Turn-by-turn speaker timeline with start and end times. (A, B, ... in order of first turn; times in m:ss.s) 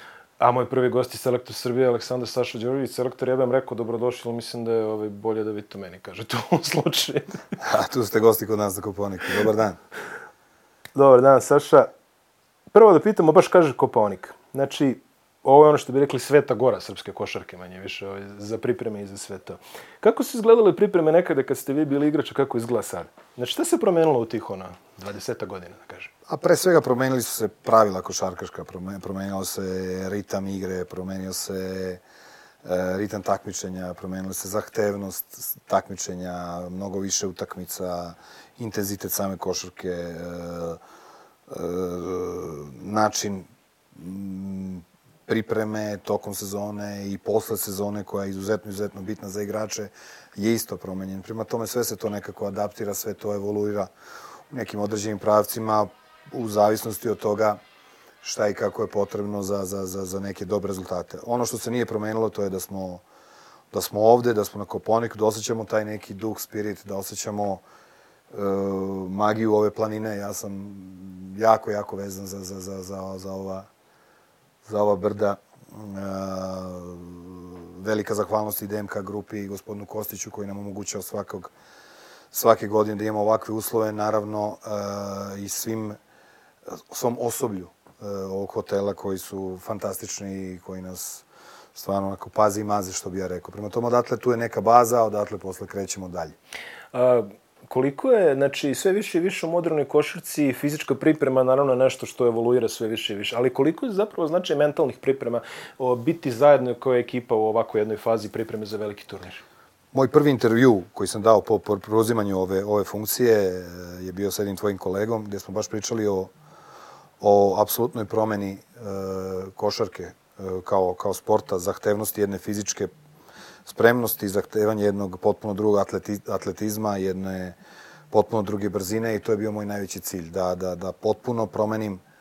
0:00.4-0:07.5 A
0:07.6-0:09.8 B
0:10.9-0:11.9 A
0:12.7-0:26.1 A
0:26.3-0:32.0 B
0:32.6-0:40.8 B
0:41.5-0:53.9 B
0:54.5-0:57.6 B
0:58.2-1:03.0 B
1:03.7-1:07.6 B
1:08.3-1:13.7 B
1:14.6-1:21.5 B
1:22.3-1:26.0 B
1:26.9-1:36.4 B
1:36.9-1:49.4 A
1:49.9-1:56.3 B
1:57.2-2:02.9 B
2:03.6-2:07.6 B
2:08.1-2:12.0 B